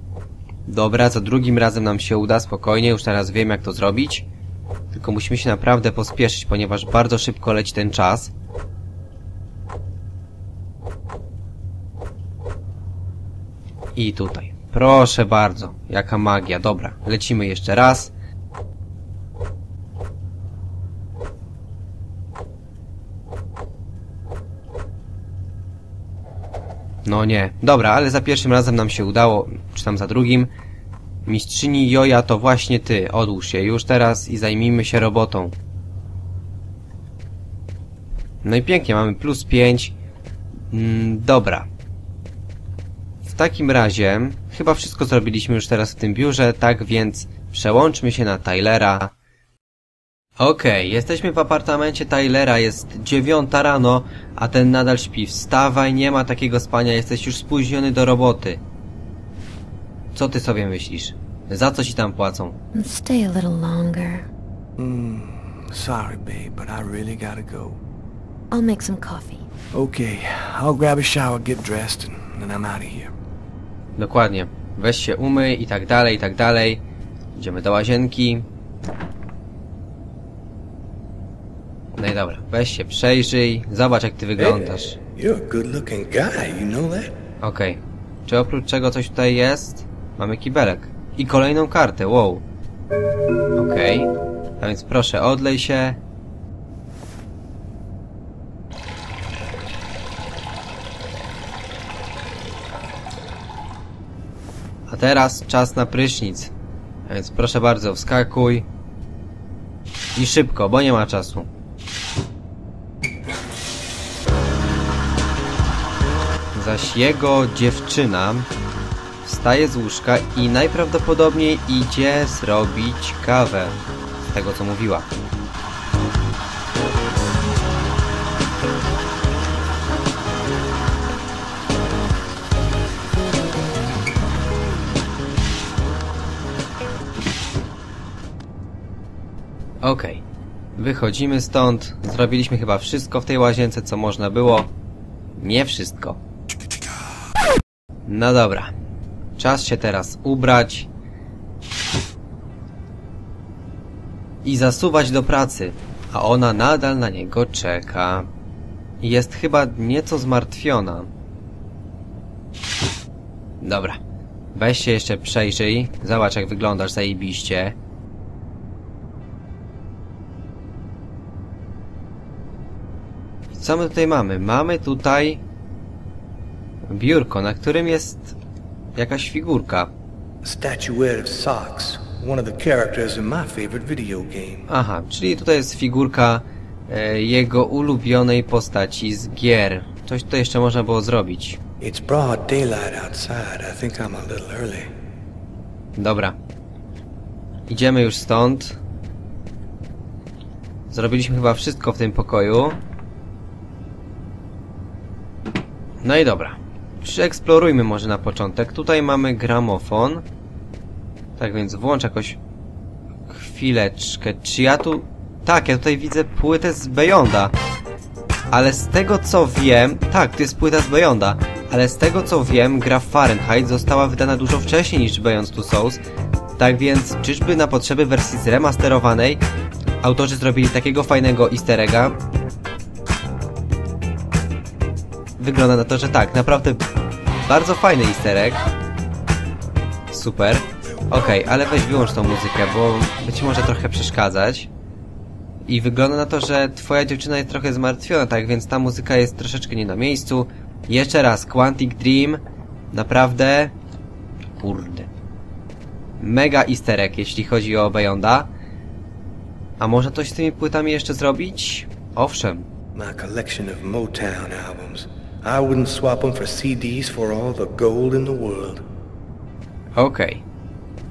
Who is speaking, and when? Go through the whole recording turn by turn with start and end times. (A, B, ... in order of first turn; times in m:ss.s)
0:00.6-0:04.3 A
0:04.9-0:08.3 A
0:13.9-0:18.1 A
0:27.0-0:30.5 A
0:31.2-0:35.5 A
0:38.4-0:40.0 A
0:40.7-0:41.7 A
0:43.2-0:49.1 A
0:50.4-0:58.6 A
1:00.1-1:02.6 A
1:02.7-1:04.3 B
1:04.8-1:07.8 C
1:08.5-1:09.4 B
1:09.7-1:13.1 C
1:14.0-1:16.8 A
1:17.4-1:18.5 A
1:21.9-1:25.0 A
1:24.4-1:27.2 C
1:27.4-1:32.4 A
1:33.6-1:36.0 A
1:44.9-1:46.5 A
1:47.0-1:48.6 A
1:50.1-1:51.5 A
1:56.5-1:58.5 A
1:59.2-2:05.1 A
2:19.8-2:20.2 A
2:20.8-2:24.7 A
2:25.4-2:26.2 A
2:28.0-2:28.7 A
2:29.4-2:30.9 A
2:34.4-2:38.3 A
2:39.0-2:41.1 A
2:43.6-2:44.0 A
2:44.5-2:47.8 A
2:53.5-2:55.4 A
2:56.9-2:58.4 A
2:59.0-2:59.9 A
3:00.4-3:04.6 C
3:04.7-3:11.6 A
3:11.8-3:14.9 C
3:16.0-3:16.4 A
3:17.7-3:18.8 A
3:20.9-3:22.8 A
3:26.0-3:30.2 A
3:31.4-3:32.4 A
3:33.3-3:37.5 A
3:38.5-3:46.0 A
3:46.6-3:49.4 A
3:50.0-3:52.2 A
3:55.4-3:56.8 A
3:57.4-3:58.6 A
4:00.1-4:04.7 A
4:05.6-4:13.7 A
4:14.6-4:15.1 A
4:16.2-4:18.5 A
4:19.8-4:22.7 A
4:22.9-4:28.8 C
4:29.9-4:30.4 A